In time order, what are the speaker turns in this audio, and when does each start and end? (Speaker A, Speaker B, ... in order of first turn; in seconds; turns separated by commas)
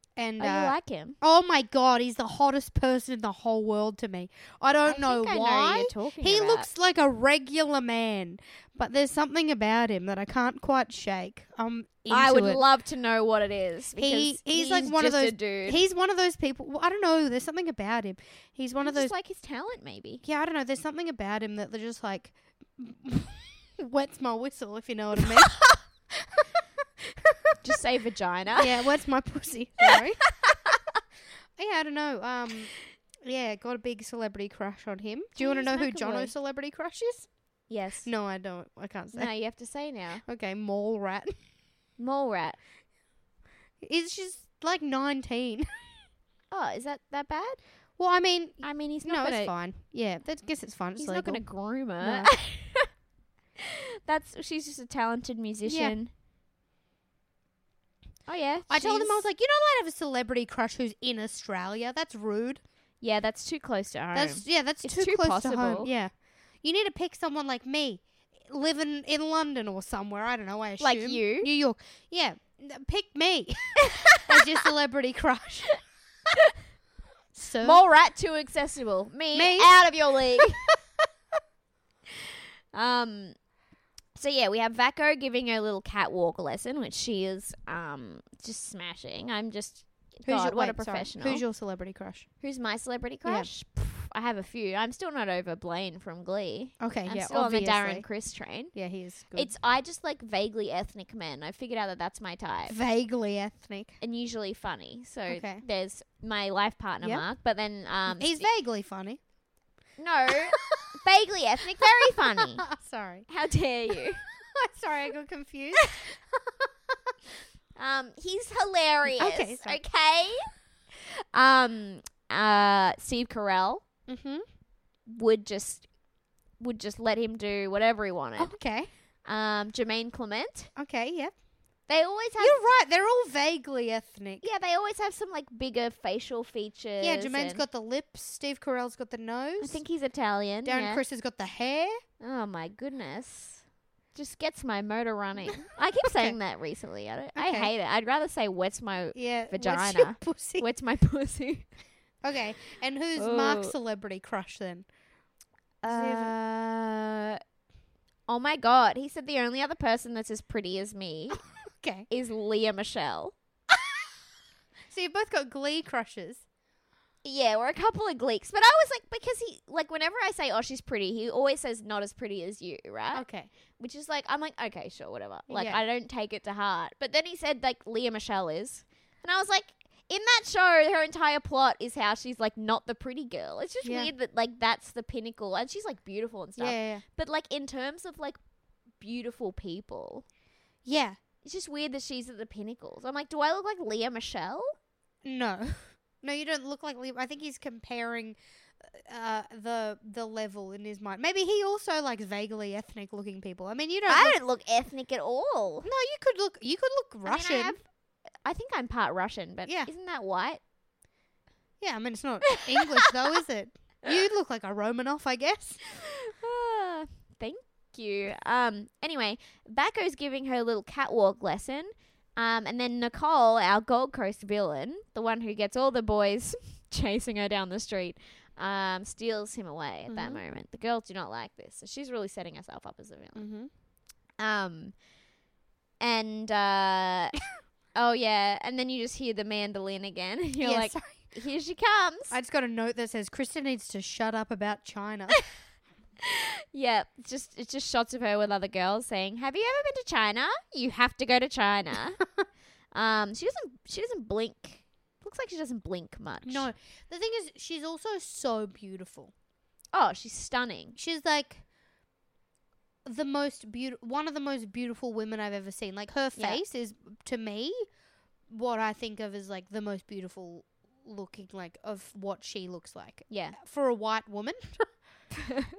Speaker A: 0.1-12.6, Speaker B: 0.4-1.2, Speaker B: 4.8-6.7, Speaker B: 12.1-15.8, Speaker A: 13.9-19.1, Speaker B: 18.8-20.2, Speaker A: 20.2-26.4, Speaker A: 27.2-27.5, Speaker B: 27.6-28.8, Speaker A: 28.5-30.3, Speaker B: 30.4-30.8, Speaker A: 31.6-32.7, Speaker A: 33.2-37.3, Speaker B: 35.4-36.3, Speaker B: 37.7-38.1, Speaker A: 38.0-39.3, Speaker B: 39.1-40.2, Speaker A: 40.2-41.3, Speaker B: 42.0-42.6, Speaker A: 43.8-45.9, Speaker B: 46.5-47.6, Speaker A: 48.0-51.5, Speaker B: 48.6-49.5, Speaker B: 51.0-52.9, Speaker A: 52.0-52.3, Speaker B: 53.6-56.1, Speaker A: 55.6-56.0, Speaker B: 58.2-59.2, Speaker A: 58.7-62.6, Speaker B: 63.0-65.9, Speaker A: 64.1-75.8, Speaker B: 70.8-71.5, Speaker B: 73.9-74.5, Speaker A: 77.3-77.8, Speaker B: 77.6-80.6, Speaker A: 79.3-80.4, Speaker B: 82.7-83.3, Speaker B: 84.1-91.4, Speaker A: 90.2-92.3, Speaker B: 92.4-98.7, Speaker A: 93.2-93.5, Speaker A: 96.8-98.1, Speaker A: 98.6-99.5, Speaker B: 99.3-102.8, Speaker A: 102.7-104.0, Speaker B: 104.0-108.5, Speaker A: 105.3-105.6, Speaker A: 108.1-109.2, Speaker B: 110.0-112.7, Speaker A: 110.5-110.8, Speaker A: 112.4-113.3, Speaker B: 113.3-114.2, Speaker A: 114.4-117.0, Speaker B: 117.8-120.5, Speaker A: 119.1-119.8, Speaker B: 121.3-123.8, Speaker A: 124.1-124.4, Speaker B: 125.1-125.9, Speaker B: 126.6-128.5, Speaker A: 128.4-128.9, Speaker B: 129.2-130.7, Speaker A: 130.8-131.3, Speaker B: 131.9-132.6, Speaker A: 132.4-134.4, Speaker B: 134.4-137.6, Speaker A: 137.0-139.8, Speaker B: 139.6-141.0, Speaker A: 140.6-142.0, Speaker B: 142.2-151.7, Speaker A: 146.1-146.3, Speaker A: 147.3-147.7, Speaker A: 149.1-150.7, Speaker A: 152.2-154.9, Speaker B: 153.2-153.7, Speaker B: 155.8-157.4, Speaker A: 155.8-156.3, Speaker B: 158.3-161.4, Speaker A: 161.7-162.1, Speaker B: 162.1-163.3, Speaker A: 164.9-166.4, Speaker B: 167.2-173.2, Speaker A: 173.1-173.5, Speaker B: 173.8-188.4, Speaker A: 175.5-175.8, Speaker A: 183.8-184.1, Speaker A: 186.6-187.0, Speaker B: 189.0-190.2, Speaker A: 190.8-191.2, Speaker B: 191.4-194.7, Speaker A: 195.2-204.4, Speaker B: 204.1-205.9, Speaker A: 205.8-207.8, Speaker B: 207.2-207.8, Speaker B: 208.4-210.6, Speaker A: 211.8-215.8, Speaker B: 216.0-233.4, Speaker A: 230.1-230.4, Speaker A: 233.3-233.7, Speaker B: 234.4-234.9, Speaker B: 236.0-237.4, Speaker B: 237.9-242.3, Speaker A: 240.6-241.3, Speaker A: 242.3-245.4, Speaker B: 246.2-252.2, Speaker B: 252.9-256.7, Speaker A: 256.4-259.3, Speaker B: 259.9-261.0, Speaker A: 260.9-261.6, Speaker A: 263.0-267.9, Speaker B: 266.4-266.6, Speaker A: 268.5-274.9, Speaker B: 273.3-273.6